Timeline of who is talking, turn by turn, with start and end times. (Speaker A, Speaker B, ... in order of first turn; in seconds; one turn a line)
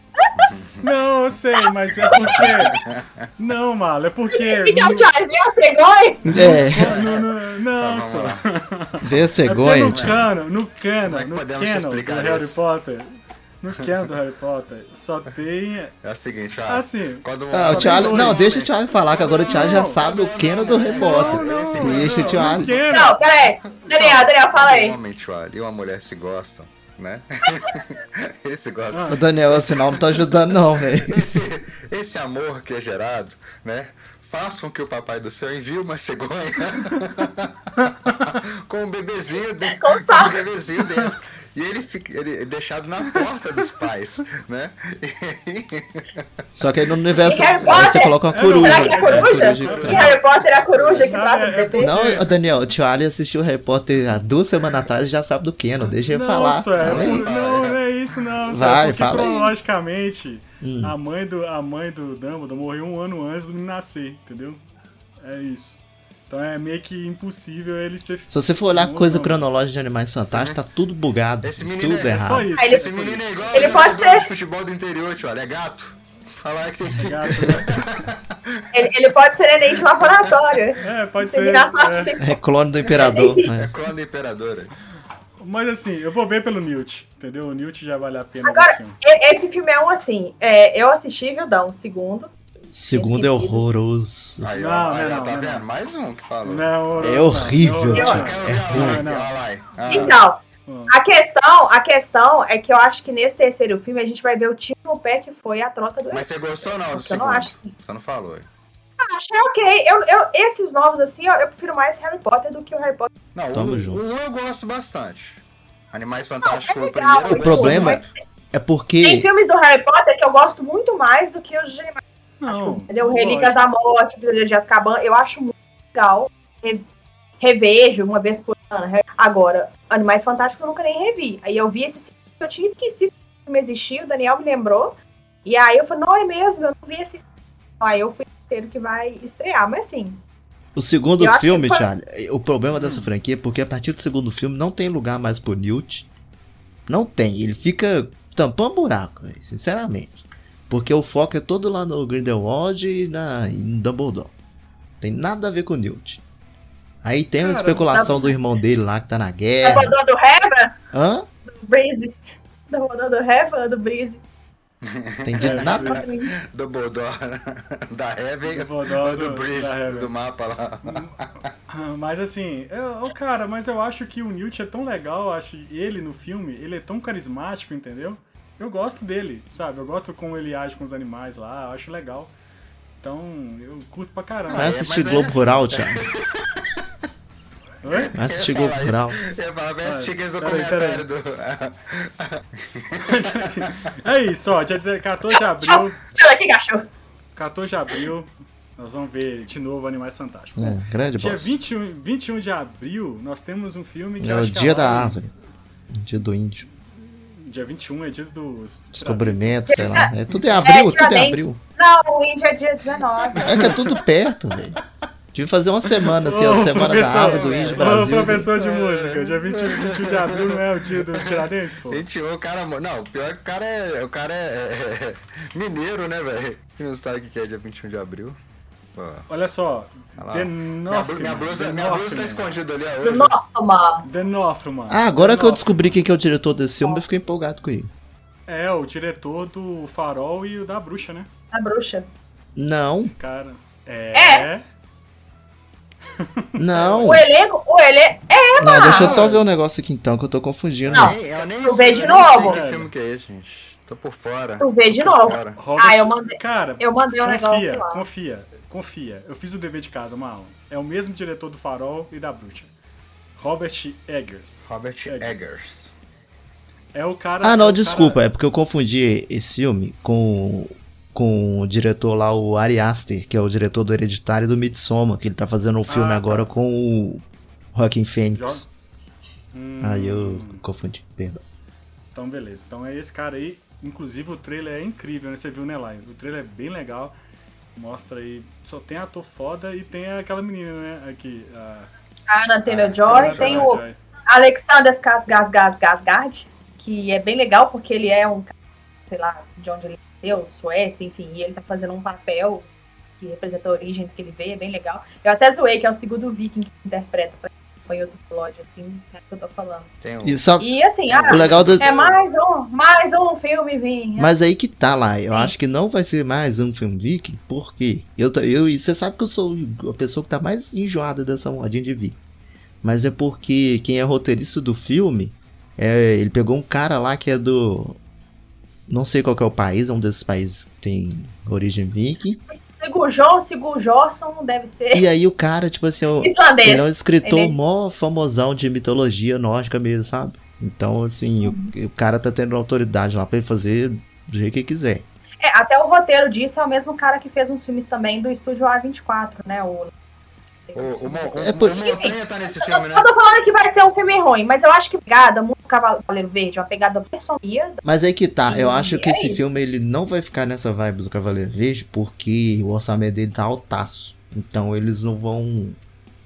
Speaker A: 0.3-0.8
Speaker B: 0.8-2.8
Speaker A: 2.1-3.1
Speaker B: 3.4-5.1
Speaker C: 4.3-6.4
Speaker B: 6.2-15.9
Speaker D: 6.3-6.9
Speaker A: 6.6-8.4
Speaker D: 9.0-10.2
Speaker A: 9.8-10.3
Speaker A: 11.0-12.6
Speaker A: 16.0-22.8
Speaker B: 16.7-18.6
Speaker D: 17.5-22.7
Speaker B: 19.4-20.0
Speaker B: 20.8-23.3
Speaker C: 22.9-24.9
Speaker B: 23.8-24.3
Speaker A: 24.5-29.9
Speaker B: 28.9-29.6
Speaker D: 29.1-31.4
Speaker A: 30.9-46.2
Speaker B: 37.8-38.3
Speaker C: 39.6-40.4
Speaker D: 46.5-50.2
Speaker C: 47.2-51.9
Speaker B: 48.3-50.2
Speaker A: 49.8-51.0
Speaker B: 50.7-52.3
Speaker D: 51.8-57.3
Speaker B: 56.1-64.6
Speaker A: 56.8-57.8
Speaker D: 58.5-59.5
Speaker D: 60.6-61.0
Speaker B: 65.2-69.4
Speaker D: 68.3-72.5
Speaker A: 70.3-70.6
Speaker A: 71.4-78.8
Speaker B: 72.1-73.9
Speaker C: 72.6-72.8
Speaker C: 73.5-74.3
Speaker B: 77.0-77.9
Speaker C: 78.7-83.5
Speaker A: 79.7-80.4
Speaker B: 80.8-82.1
Speaker D: 82.2-83.7
Speaker A: 82.8-84.7
Speaker B: 85.4-89.0
Speaker C: 88.4-92.3
Speaker D: 92.7-94.5
Speaker C: 92.9-93.6
Speaker A: 94.4-96.7
Speaker B: 94.5-95.7
Speaker B: 96.4-99.3
Speaker D: 97.0-99.0
Speaker C: 97.9-98.2
Speaker A: 97.9-100.2
Speaker C: 99.9-107.7
Speaker B: 100.7-100.9
Speaker A: 106.1-108.5
Speaker C: 109.0-113.1
Speaker A: 113.3-118.0
Speaker D: 113.5-114.0
Speaker C: 116.4-118.1
Speaker D: 117.3-119.3
Speaker C: 119.0-126.8
Speaker B: 122.4-123.6
Speaker C: 127.4-137.2
Speaker C: 137.8-140.2
Speaker D: 140.7-146.1
Speaker C: 141.2-141.8
Speaker B: 142.7-143.1
Speaker D: 146.9-154.3
Speaker D: 155.0-156.2
Speaker D: 157.0-159.9
Speaker B: 157.4-158.1
Speaker C: 157.9-158.3
Speaker C: 159.6-160.7
Speaker D: 160.9-161.3
Speaker C: 161.5-162.2
Speaker C: 162.7-164.2
Speaker A: 164.8-171.2
Speaker D: 165.2-166.1
Speaker B: 165.4-166.1
Speaker C: 165.8-166.3
Speaker B: 168.4-170.1
Speaker B: 170.8-171.2
Speaker B: 171.7-182.3
Speaker B: 183.0-185.2
Speaker A: 184.5-186.7
Speaker D: 184.5-186.0
Speaker B: 187.8-188.1
Speaker A: 187.9-193.9
Speaker D: 188.1-189.2
Speaker B: 189.8-191.0
Speaker B: 193.0-196.0
Speaker C: 195.6-196.9
Speaker B: 197.3-205.2
Speaker D: 200.6-201.6
Speaker D: 204.2-205.3
Speaker D: 205.9-206.7
Speaker B: 207.0-209.6
Speaker D: 208.9-211.6
Speaker C: 209.7-213.7
Speaker A: 213.3-213.8
Speaker D: 213.4-214.8
Speaker D: 215.3-218.5
Speaker B: 216.1-222.0
Speaker A: 216.9-228.4
Speaker A: 228.9-229.3
Speaker B: 229.3-232.5
Speaker A: 230.2-233.3
Speaker C: 233.0-234.1
Speaker B: 234.0-236.0
Speaker D: 234.9-237.9
Speaker B: 238.5-241.3
Speaker C: 241.5-242.1
Speaker D: 242.6-243.1
Speaker B: 243.0-244.6
Speaker C: 244.1-244.4
Speaker B: 246.2-247.2
Speaker D: 246.6-247.2
Speaker C: 247.0-249.2
Speaker D: 248.6-251.1
Speaker B: 248.8-249.4
Speaker A: 250.8-255.6
Speaker C: 250.9-252.6
Speaker B: 252.1-252.9
Speaker C: 254.6-258.0
Speaker B: 255.6-262.7
Speaker B: 263.4-265.6
Speaker A: 264.7-265.9
Speaker B: 266.9-268.2
Speaker D: 267.4-277.2
Speaker B: 275.9-276.5
Speaker D: 277.7-278.7
Speaker B: 278.3-278.6
Speaker B: 279.5-280.6
Speaker D: 279.8-281.4
Speaker B: 282.1-287.1
Speaker B: 287.8-291.9
Speaker C: 292.3-298.5
Speaker A: 292.6-293.7
Speaker B: 293.0-294.0
Speaker C: 299.1-302.7
Speaker C: 303.2-309.9
Speaker A: 310.0-310.4
Speaker D: 310.2-310.7
Speaker C: 310.6-314.3
Speaker A: 311.1-312.2
Speaker D: 311.3-311.9
Speaker D: 314.2-322.2
Speaker D: 322.8-328.0
Speaker D: 328.9-332.4
Speaker C: 332.5-335.1
Speaker D: 334.9-345.0
Speaker C: 336.2-337.5
Speaker C: 341.4-341.7
Speaker C: 345.4-349.9
Speaker C: 350.7-357.8
Speaker A: 350.7-353.1
Speaker D: 351.4-351.8
Speaker D: 357.8-365.8
Speaker C: 358.5-359.4